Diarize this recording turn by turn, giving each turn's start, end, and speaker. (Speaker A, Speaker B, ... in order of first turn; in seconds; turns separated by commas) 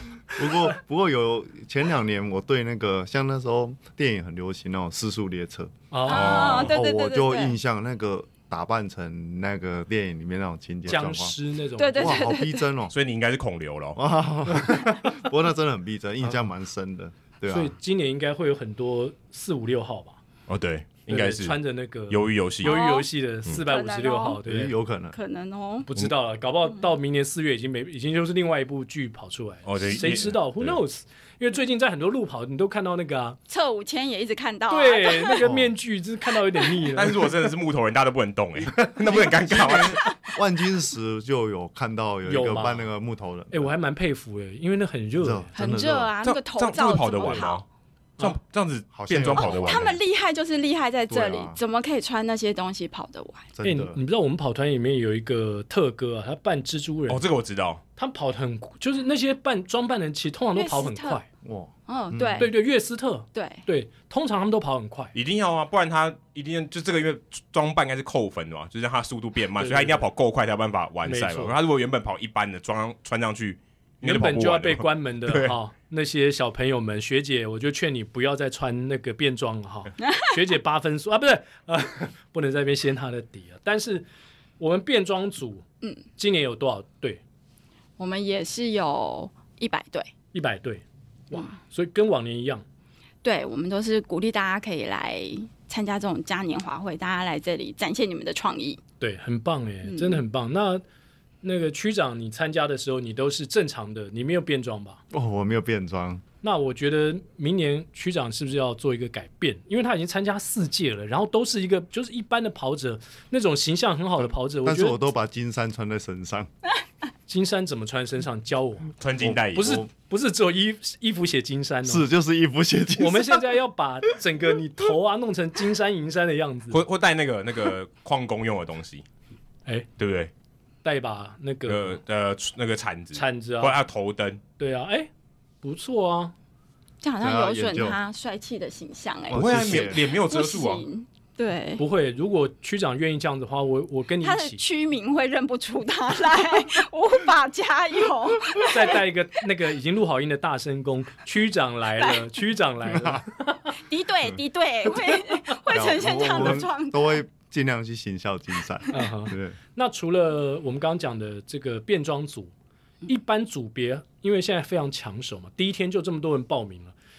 Speaker A: 0.3-11.3, Speaker B: 5.9-6.4, Speaker C: 6.0-7.5, Speaker D: 6.1-6.7, Speaker B: 10.8-12.3, Speaker C: 11.8-12.6, Speaker A: 11.9-12.9, Speaker D: 12.9-14.0, Speaker A: 13.9-17.7, Speaker B: 14.6-14.9, Speaker B: 17.5-20.2, Speaker D: 20.5-21.6, Speaker B: 21.1-24.7, Speaker D: 22.1-22.8, Speaker C: 22.6-24.4, Speaker A: 24.4-25.2, Speaker C: 25.1-25.9, Speaker B: 25.9-33.4, Speaker D: 29.6-30.8, Speaker C: 33.5-35.5, Speaker B: 34.7-37.2, Speaker A: 35.4-35.7, Speaker D: 36.9-40.1, Speaker A: 39.0-43.7, Speaker B: 42.2-42.9, Speaker B: 43.5-45.5, Speaker A: 45.2-46.1, Speaker C: 45.5-47.6, Speaker D: 46.2-47.6, Speaker D: 48.2-50.0, Speaker A: 48.9-50.0, Speaker C: 49.3-53.5, Speaker A: 51.1-51.6, Speaker A: 53.5-54.0, Speaker B: 53.6-57.2, Speaker D: 57.1-57.8, Speaker B: 58.0-61.2, Speaker C: 60.5-61.2, Speaker A: 61.4-62.5, Speaker C: 61.9-62.5, Speaker B: 62.4-65.1, Speaker C: 63.3-63.6, Speaker D: 65.1-75.6, Speaker B: 69.6-70.1, Speaker B: 71.0-71.6, Speaker B: 74.0-84.0, Speaker B: 84.6-85.6, Speaker B: 86.2-87.2, Speaker C: 88.0-90.1, Speaker B: 90.3-92.6, Speaker C: 93.2-98.8, Speaker B: 99.0-100.8, Speaker C: 99.8-100.2, Speaker B: 101.4-105.0, Speaker A: 105.1-106.2, Speaker B: 106.4-115.0, Speaker A: 114.6-116.5, Speaker B: 117.3-118.9, Speaker D: 119.0-119.8, Speaker A: 119.2-119.9, Speaker B: 119.5-122.1, Speaker A: 121.8-123.5, Speaker B: 123.0-126.8, Speaker D: 126.7-129.0, Speaker D: 130.0-130.3, Speaker B: 130.8-132.0, Speaker D: 131.7-134.4, Speaker B: 133.1-133.8, Speaker B: 134.6-135.1, Speaker B: 135.6-136.3, Speaker C: 137.0-141.8, Speaker A: 137.2-138.0, Speaker A: 139.3-140.1, Speaker D: 139.3-140.8, Speaker B: 141.8-144.6, Speaker C: 144.2-149.0, Speaker B: 148.6-153.7, Speaker A: 152.9-153.2, Speaker C: 153.8-157.2, Speaker A: 155.7-159.6, Speaker B: 158.9-162.5, Speaker B: 163.1-166.9